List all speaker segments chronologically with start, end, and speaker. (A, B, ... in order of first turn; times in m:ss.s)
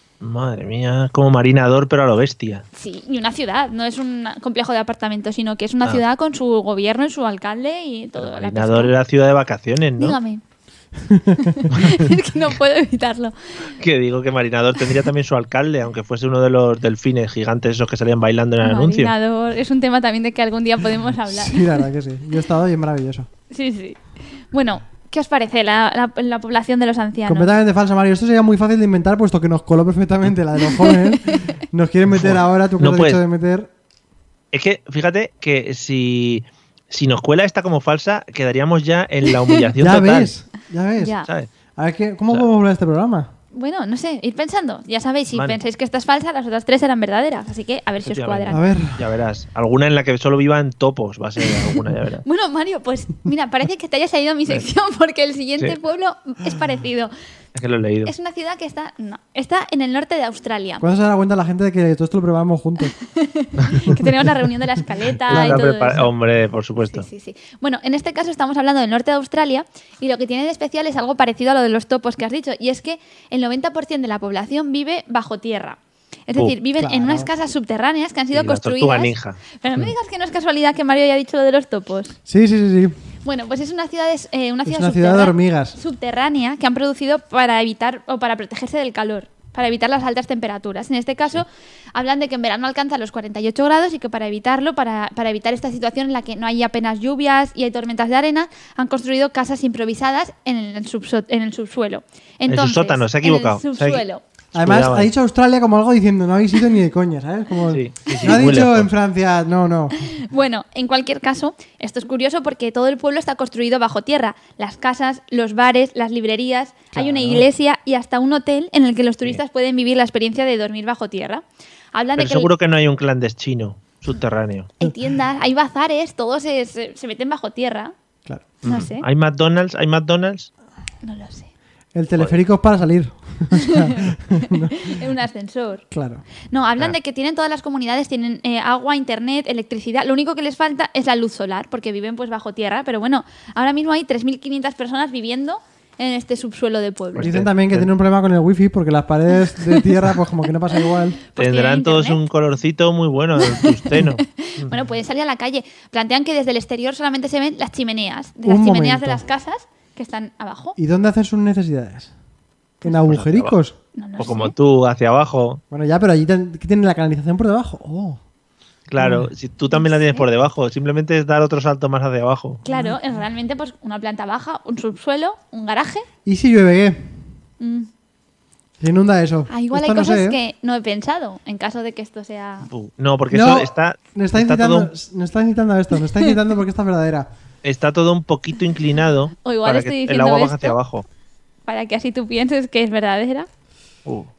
0:00.2-0:02.6 A
0:02.8-0:08.9 B
0:08.2-0:10.2 A
0:10.0-0:10.4 B
0:11.0-0:11.6 C
0:11.3-0:13.7 B
0:11.7-0:12.1 A
0:13.8-0:19.1 A
0:18.6-0:21.8 B
0:21.3-0:23.3 C
0:23.5-0:27.5 B
0:27.3-0:33.7 C
0:30.8-0:31.5 B
0:32.1-0:33.2 A
0:34.5-0:40.3 A
0:39.3-0:39.6 B
0:39.8-0:41.2 C
0:41.0-0:41.3 B
0:41.8-0:43.3 C
0:43.5-0:48.6 B
0:45.3-0:45.6 A
0:48.0-0:52.2 A
0:48.5-0:49.0 C
0:52.2-0:57.1 B
0:57.6-0:58.1 A
0:58.0-1:00.8 B
1:00.8-1:02.9 C
1:03.0-1:06.1 B
1:03.9-1:04.4 C
1:05.3-1:07.1 A
1:05.3-1:05.7 C
1:06.8-1:22.2 B
1:16.8-1:17.3 C
1:18.3-1:19.9 A
1:22.3-1:23.0 C
1:23.2-1:44.2 B
1:24.7-1:25.8 C
1:42.5-1:44.0 A
1:44.5-1:50.0 C
1:44.6-1:45.1 A
1:47.7-1:48.9 A
1:48.1-1:48.4 B
1:50.1-2:01.4 B
1:56.9-1:57.4 C
2:01.9-2:02.5 B
2:02.2-2:04.7 A
2:04.8-2:07.9 B
2:08.3-2:08.5 C
2:08.6-2:09.1 B
2:08.6-2:10.5 A
2:11.0-2:11.5 B
2:12.0-2:14.9 C
2:13.5-2:15.8 B
2:15.9-2:16.2 C
2:16.5-2:27.4 B
2:27.2-2:27.9 A
2:27.2-2:31.2 C
2:31.3-2:32.2 B
2:31.4-2:34.8 A
2:33.4-2:40.8 B
2:38.4-2:39.2 C
2:40.8-2:42.1 C
2:42.8-2:43.8 C
2:42.9-2:43.6 A
2:44.0-2:44.5 B
2:44.2-2:45.6 A
2:45.7-2:48.2 C
2:48.9-2:52.6 A
2:49.0-2:49.3 C
2:49.7-2:50.3 B
2:52.6-2:56.1 B
2:52.7-2:53.0 C
2:56.2-2:57.2 C
2:57.6-2:57.9 B
2:58.8-3:00.4 C
2:59.5-3:02.7 B
3:02.7-3:04.9 A
3:03.3-3:07.3 C
3:07.6-3:11.1 A
3:09.4-3:10.8 B
3:11.7-3:13.5 B